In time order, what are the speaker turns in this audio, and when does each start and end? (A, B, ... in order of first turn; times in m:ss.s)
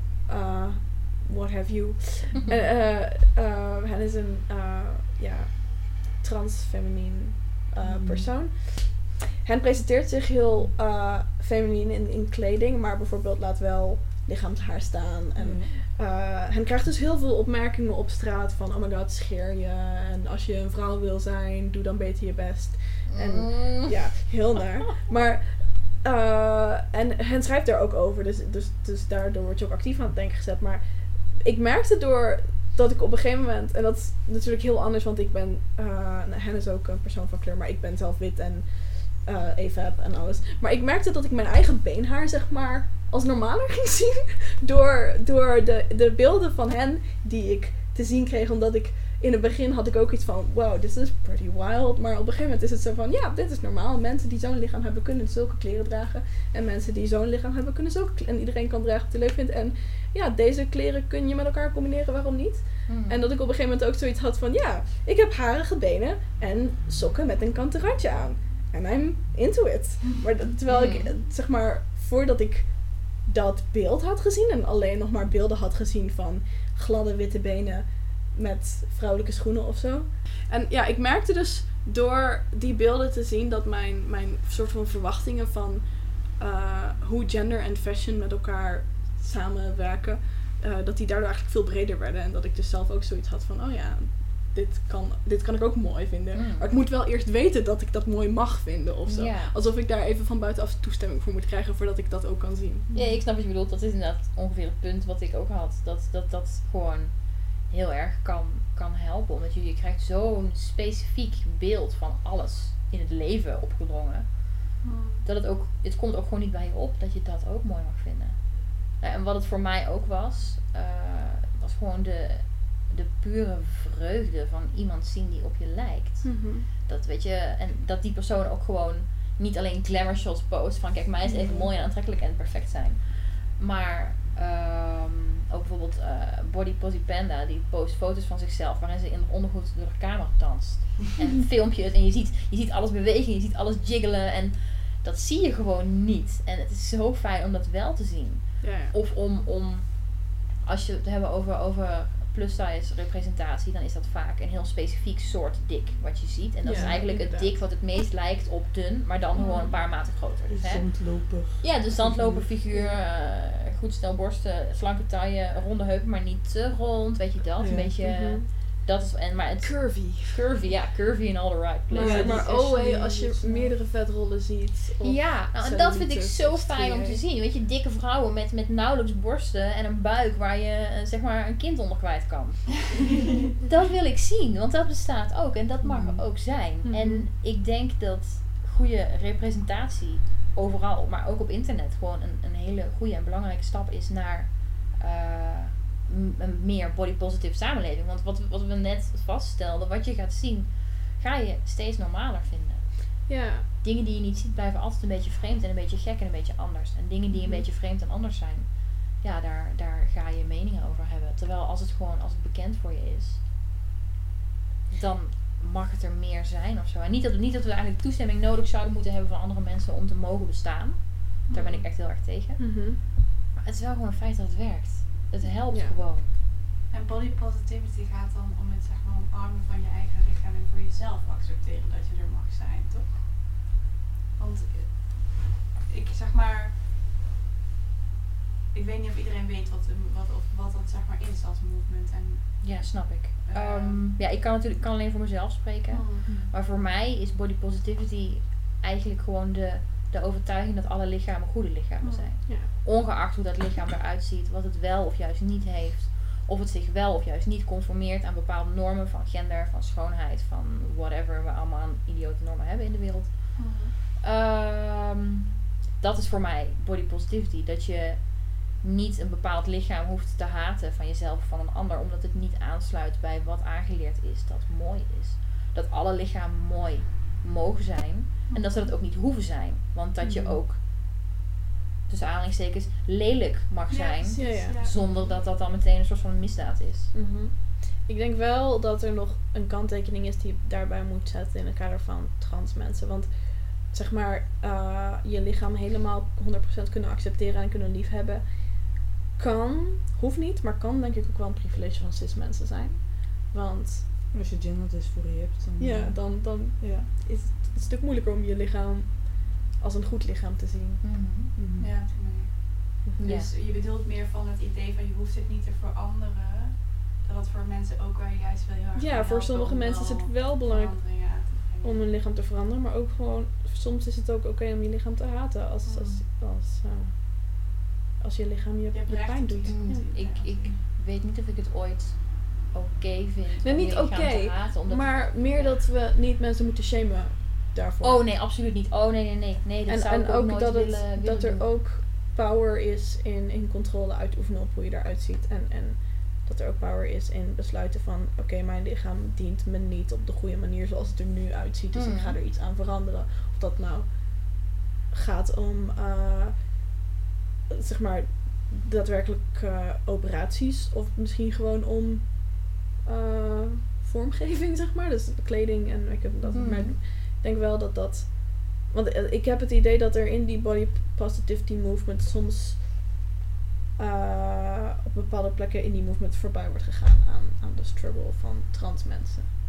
0:00.3-1:42.9 A
0:07.8-0:08.3 B
0:15.4-0:15.8 B
0:23.1-0:24.3 C
1:02.9-1:03.3 C
1:10.7-1:11.2 C
1:36.3-1:36.7 C
1:39.1-1:39.5 C
1:42.9-1:54.7 C
1:54.8-1:55.2 D
1:55.2-2:52.8 C
2:06.2-2:06.7 A
2:11.2-2:11.7 A
2:28.6-2:29.0 A
2:36.6-2:37.0 B
2:36.6-2:37.5 A
2:39.4-2:39.7 D
2:40.5-2:42.5 B
2:47.6-2:48.0 B
2:48.0-2:48.5 A
2:49.6-2:50.5 A
2:51.9-2:57.2 A
2:51.9-2:53.4 B
2:55.0-3:03.1 C
3:03.6-3:33.4 C
3:05.8-3:06.4 B
3:06.8-3:07.3 A
3:23.3-3:23.7 A
3:27.4-3:27.6 A
3:34.9-3:46.3 C
3:41.5-3:41.9 D
3:42.6-3:43.0 A
3:45.7-3:46.0 A
3:46.9-3:53.2 D
3:54.4-3:56.8 D
3:58.7-4:04.1 D
4:02.6-4:40.8 C
4:05.9-4:06.3 D
4:06.3-4:06.5 B
4:12.0-4:12.3 D
4:23.6-4:23.9 D
4:38.5-4:38.9 D
4:40.2-4:40.6 A
4:42.1-4:47.1 C
4:43.9-4:45.4 D
4:44.4-4:44.8 A
4:47.1-5:04.1 A
5:04.3-5:07.1 B
5:05.8-5:11.4 A
5:11.0-5:11.5 C
5:11.6-5:12.0 B
5:11.8-5:22.0 D
5:13.0-5:13.4 A
5:13.2-5:13.5 C
5:19.0-5:30.1 A
5:25.9-5:26.2 D
5:28.9-5:30.8 D
5:29.7-5:35.8 C
5:33.6-5:38.3 A
5:38.0-5:41.7 C
5:39.9-5:56.8 A
5:51.9-5:52.4 C
5:57.7-6:13.2 A
6:06.5-6:07.0 C
6:14.0-6:19.5 A